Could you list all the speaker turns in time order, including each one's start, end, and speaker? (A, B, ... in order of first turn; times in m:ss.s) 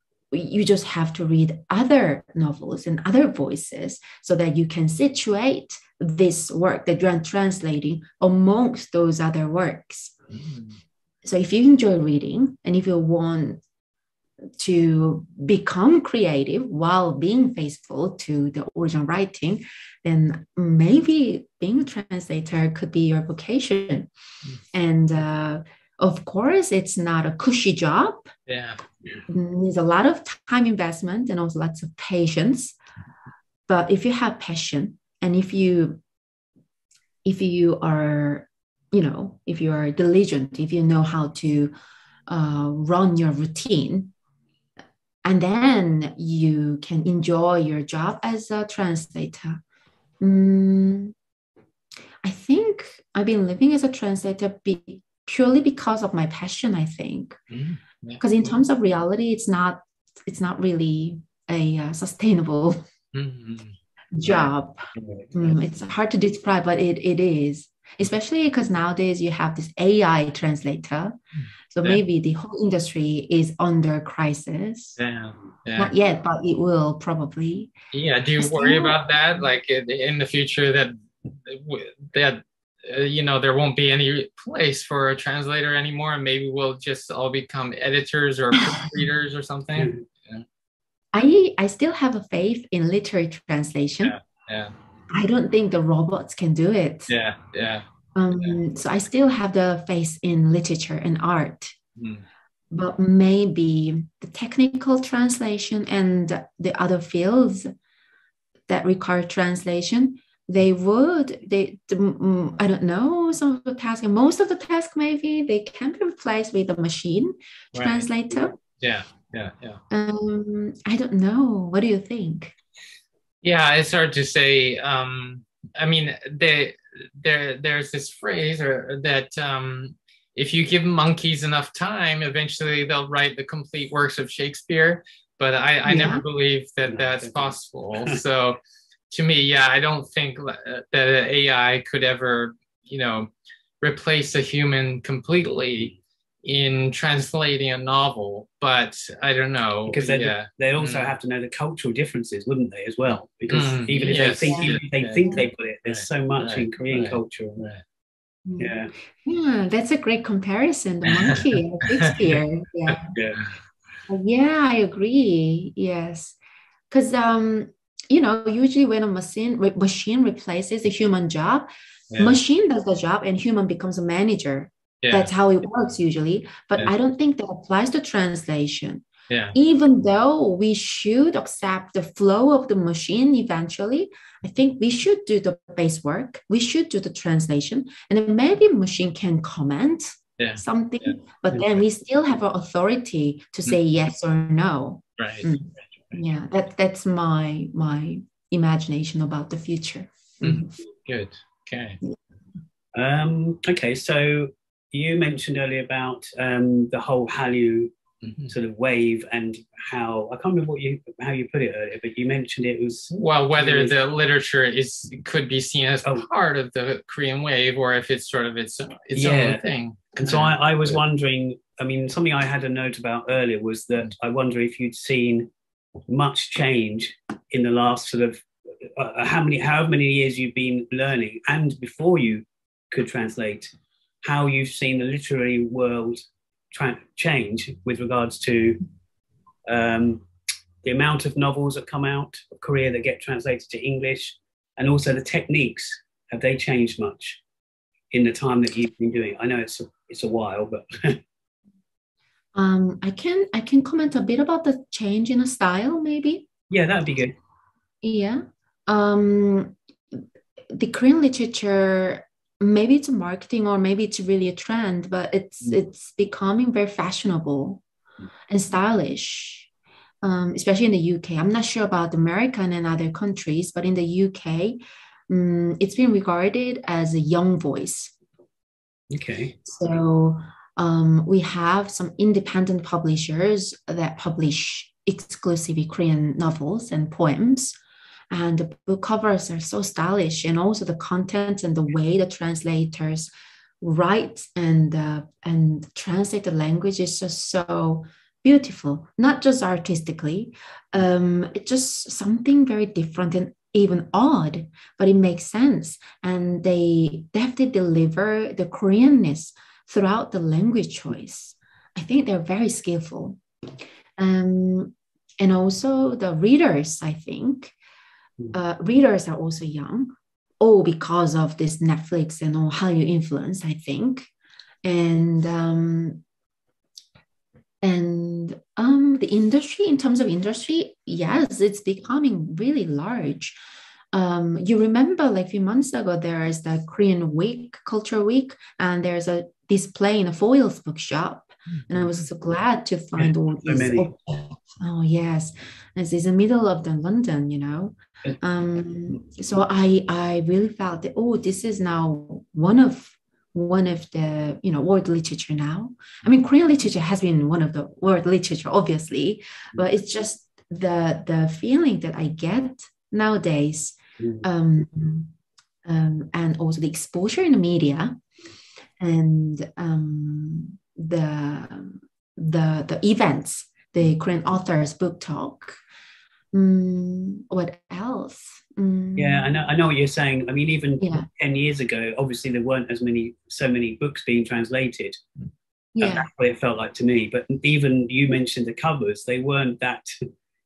0:00.3-0:10.1 A
0:10.4-0:10.7 B
0:11.2-0:13.6 A
0:14.6-0:24.1 A
0:24.7-0:28.3 A
0:28.5-0:28.8 B
0:29.3-0:32.7 A
0:33.7-0:36.0 A
0:37.2-0:41.7 A
0:42.3-0:44.1 A
0:45.2-0:49.6 A
0:50.2-0:51.1 A
0:52.2-0:57.4 A
0:57.5-0:58.2 B
0:58.2-1:02.8 A
1:03.1-1:03.8 B
1:04.1-1:11.2 A
1:04.2-1:05.4 C
1:11.4-1:12.0 B
1:11.7-1:15.0 A
1:15.0-1:15.9 B
1:15.8-1:17.7 A
1:17.9-1:30.4 B
1:18.4-1:19.0 A
1:28.7-1:29.0 A
1:29.7-1:30.0 C
1:31.1-1:34.1 A
1:34.0-1:34.7 B
1:35.1-1:37.1 A
1:37.1-1:37.8 B
1:38.1-1:41.8 A
1:42.0-1:42.2 B
1:42.7-1:47.7 A
1:48.7-1:58.6 A
1:57.7-1:58.0 B
1:58.8-1:59.8 B
1:59.9-2:02.5 A
2:03.4-2:18.6 B
2:15.8-2:16.2 A
2:16.9-2:18.2 C
2:19.1-2:23.3 B
2:23.8-2:31.1 B
2:29.9-2:37.7 C
2:33.5-2:37.8 B
2:33.9-2:35.4 A
2:38.4-2:43.1 A
2:38.6-2:38.9 C
2:41.1-2:42.1 B
2:43.1-2:43.4 C
2:44.1-2:46.4 A
2:46.9-2:51.7 A
2:52.1-2:52.4 B
2:52.2-3:20.7 A
2:55.0-2:55.3 B
2:59.3-2:59.5 B
3:10.4-3:11.1 B
3:15.2-3:16.2 B
3:20.4-3:22.0 B
3:22.9-3:27.9 C
3:28.2-3:28.5 B
3:28.5-3:33.9 C
3:33.1-3:41.0 B
3:39.2-3:39.6 C
3:40.2-3:45.5 C
3:46.1-3:53.7 C
3:54.2-3:58.8 C
3:59.7-4:00.2 C
4:00.8-4:07.4 C
4:08.1-4:11.2 C
4:12.5-4:16.5 A
4:16.7-4:17.3 C
4:18.0-4:20.2 A
4:20.7-4:27.8 A
4:28.5-4:29.7 A
4:30.2-4:34.8 A
4:35.3-4:38.1 A
4:39.1-4:39.5 C
4:39.6-4:47.7 A
4:48.3-4:53.3 A
4:53.8-5:13.4 A
5:14.2-5:17.7 A
5:18.5-5:24.3 A
5:24.8-5:26.2 A
5:27.8-5:33.6 A
5:34.1-6:05.3 A
5:43.2-5:44.1 C
6:04.2-6:04.4 C
6:05.8-6:08.2 A
6:09.0-6:15.8 A
6:16.5-6:19.6 A
6:19.2-6:25.2 C
6:21.0-6:21.3 A
6:25.9-6:26.3 A
6:26.0-6:30.0 C